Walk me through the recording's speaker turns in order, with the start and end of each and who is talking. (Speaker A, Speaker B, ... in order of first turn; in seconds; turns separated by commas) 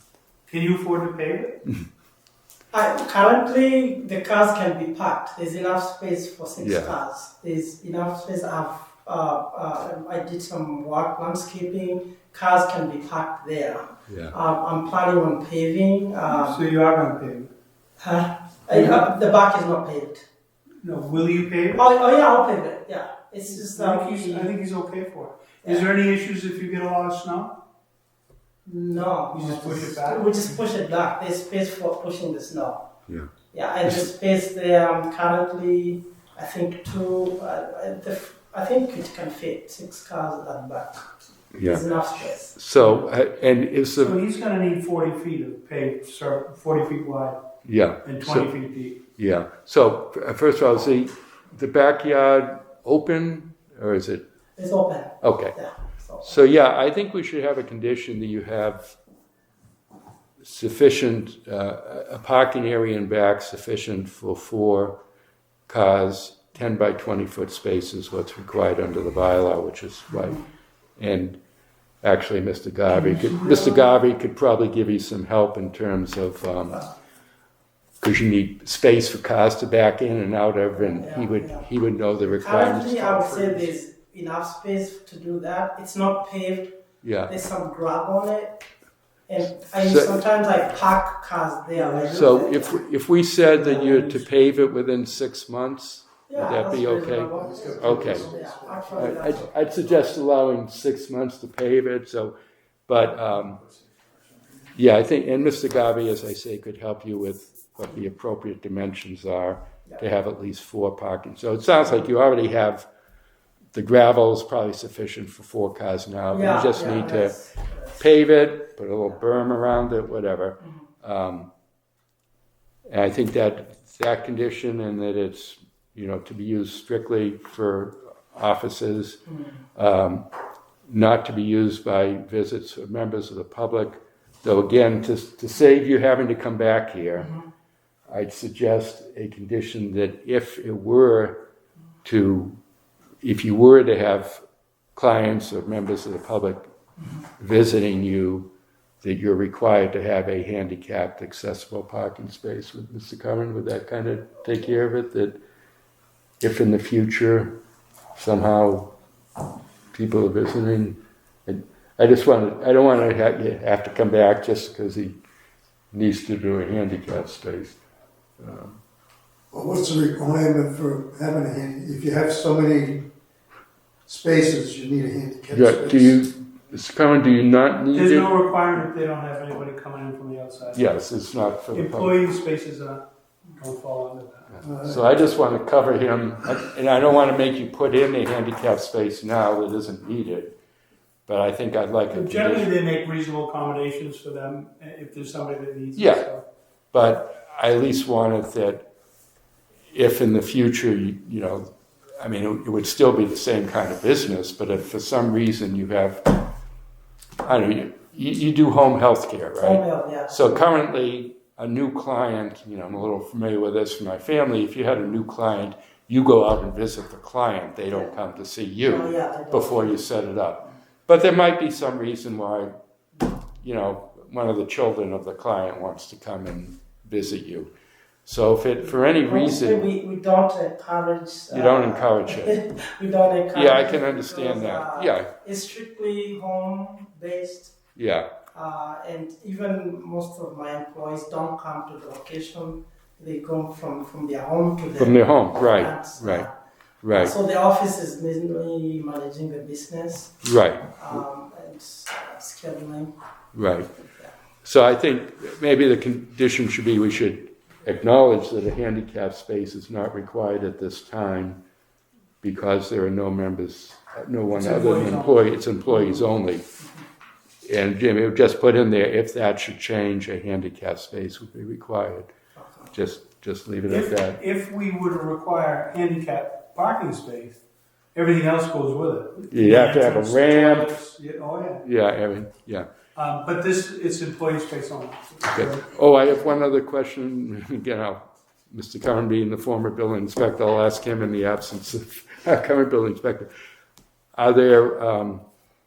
Speaker A: 0.5-1.6, Speaker B: 2.7-16.6, Speaker C: 6.6-7.0, Speaker C: 14.1-14.3, Speaker A: 16.3-17.5, Speaker B: 18.0-20.2, Speaker A: 18.7-19.0, Speaker A: 20.8-21.8, Speaker B: 21.8-24.5, Speaker A: 23.5-27.6, Speaker B: 28.6-32.8, Speaker A: 29.3-30.6, Speaker B: 33.5-41.1, Speaker C: 41.5-41.8, Speaker B: 41.6-42.5, Speaker C: 42.5-44.2, Speaker A: 42.8-43.0, Speaker A: 44.0-47.4, Speaker C: 47.6-48.5, Speaker A: 48.0-49.0, Speaker C: 49.2-54.2, Speaker B: 54.6-56.3, Speaker C: 55.2-55.5, Speaker C: 56.2-58.9, Speaker C: 60.4-65.0, Speaker C: 65.7-70.4, Speaker C: 71.0-71.4, Speaker C: 72.0-76.9, Speaker A: 72.9-73.8, Speaker C: 78.0-83.7, Speaker B: 80.7-81.7, Speaker B: 82.2-86.7, Speaker C: 87.0-87.3, Speaker B: 87.3-88.6, Speaker B: 89.3-92.8, Speaker C: 89.8-90.2, Speaker A: 91.7-92.4, Speaker C: 92.1-98.3, Speaker B: 93.5-94.1, Speaker B: 96.3-100.2, Speaker D: 97.4-99.3, Speaker C: 99.0-102.3, Speaker C: 102.9-103.6, Speaker C: 104.7-112.9, Speaker C: 113.7-117.4, Speaker B: 116.3-118.0, Speaker C: 118.0-121.5, Speaker C: 122.9-129.2, Speaker C: 129.8-130.3, Speaker C: 130.9-137.3, Speaker C: 138.1-141.4, Speaker C: 142.0-142.6, Speaker C: 143.2-144.4, Speaker C: 144.9-146.7, Speaker C: 147.4-148.5, Speaker C: 149.0-155.4, Speaker C: 156.4-157.6, Speaker C: 158.1-158.9, Speaker C: 159.9-165.2, Speaker C: 165.9-167.8, Speaker C: 168.4-168.8, Speaker D: 169.5-173.1, Speaker D: 174.1-176.2, Speaker C: 175.5-178.3, Speaker A: 177.9-180.9, Speaker C: 180.7-182.2, Speaker A: 181.7-184.6, Speaker C: 184.6-190.5, Speaker D: 184.6-185.0, Speaker C: 191.3-192.7, Speaker A: 192.1-196.4, Speaker C: 195.9-196.3, Speaker C: 196.9-198.9, Speaker C: 199.9-201.7, Speaker C: 202.2-206.3, Speaker C: 207.4-222.7, Speaker B: 209.6-210.4, Speaker B: 218.9-220.2, Speaker C: 223.6-227.7, Speaker C: 228.2-229.9, Speaker B: 229.0-237.8, Speaker C: 231.5-232.6, Speaker C: 233.5-235.3, Speaker C: 237.9-238.3, Speaker B: 238.5-246.5, Speaker C: 245.0-246.5, Speaker C: 247.0-247.3, Speaker B: 247.1-250.4, Speaker C: 250.4-251.2, Speaker B: 250.9-253.1, Speaker C: 253.5-253.9, Speaker C: 254.6-261.6, Speaker C: 262.4-266.6, Speaker A: 264.5-265.4, Speaker B: 265.9-266.2, Speaker C: 267.6-272.3, Speaker B: 272.6-272.9, Speaker C: 272.9-274.4, Speaker A: 273.9-277.6, Speaker A: 278.1-281.8, Speaker C: 279.5-280.9, Speaker C: 281.8-282.9, Speaker A: 283.1-285.9, Speaker C: 285.5-293.5, Speaker C: 294.4-295.4